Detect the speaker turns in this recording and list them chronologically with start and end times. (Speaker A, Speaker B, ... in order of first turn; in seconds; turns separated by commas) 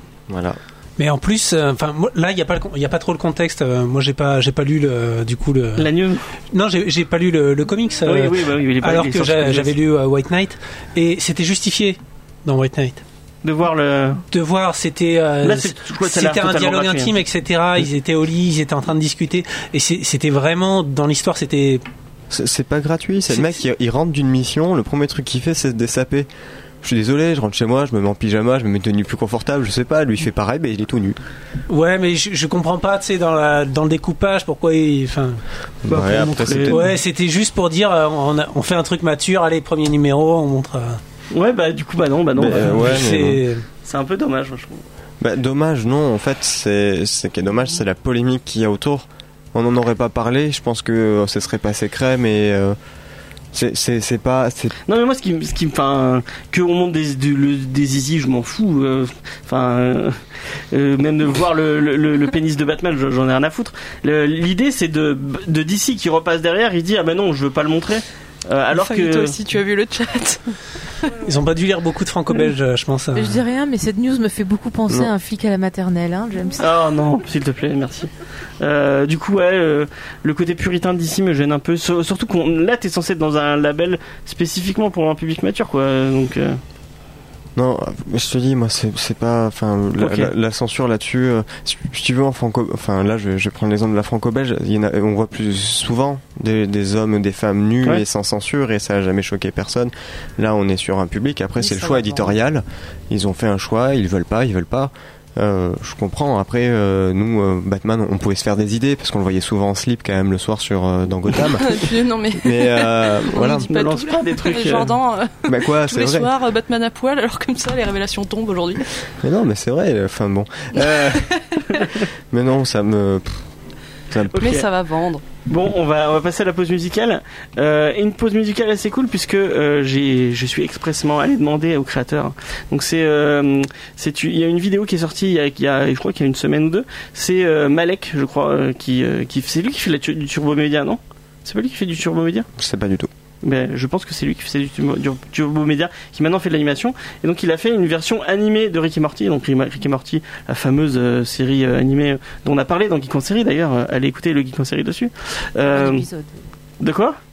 Speaker A: 0.3-0.6, Speaker B: 1.0-5.9, Speaker C: 5.8-6.3, Speaker B: 6.5-13.0, Speaker C: 8.1-9.7, Speaker C: 13.4-14.2, Speaker B: 14.3-21.8, Speaker C: 15.4-17.1, Speaker A: 22.3-26.3, Speaker A: 26.8-31.2, Speaker B: 31.7-41.0, Speaker A: 35.9-36.9, Speaker C: 35.9-36.9, Speaker C: 41.3-43.1, Speaker A: 42.4-43.4, Speaker B: 42.4-43.6, Speaker C: 43.9-44.8, Speaker A: 45.2-52.8, Speaker A: 53.5-54.8, Speaker C: 54.9-60.2, Speaker C: 60.7-69.3, Speaker D: 68.7-70.4, Speaker B: 71.2-73.4, Speaker E: 73.2-76.7, Speaker C: 76.6-86.6, Speaker A: 87.6-113.7, Speaker C: 90.0-90.3, Speaker E: 101.6-102.3, Speaker D: 111.4-118.9, Speaker C: 113.7-115.0, Speaker A: 115.5-116.3, Speaker A: 119.2-121.3, Speaker D: 120.8-121.6, Speaker A: 122.3-123.5, Speaker A: 124.1-124.6, Speaker C: 124.3-124.7, Speaker D: 124.3-125.2, Speaker C: 125.5-142.5, Speaker A: 142.6-143.1, Speaker C: 143.4-156.1, Speaker E: 155.7-156.3, Speaker C: 156.8-157.2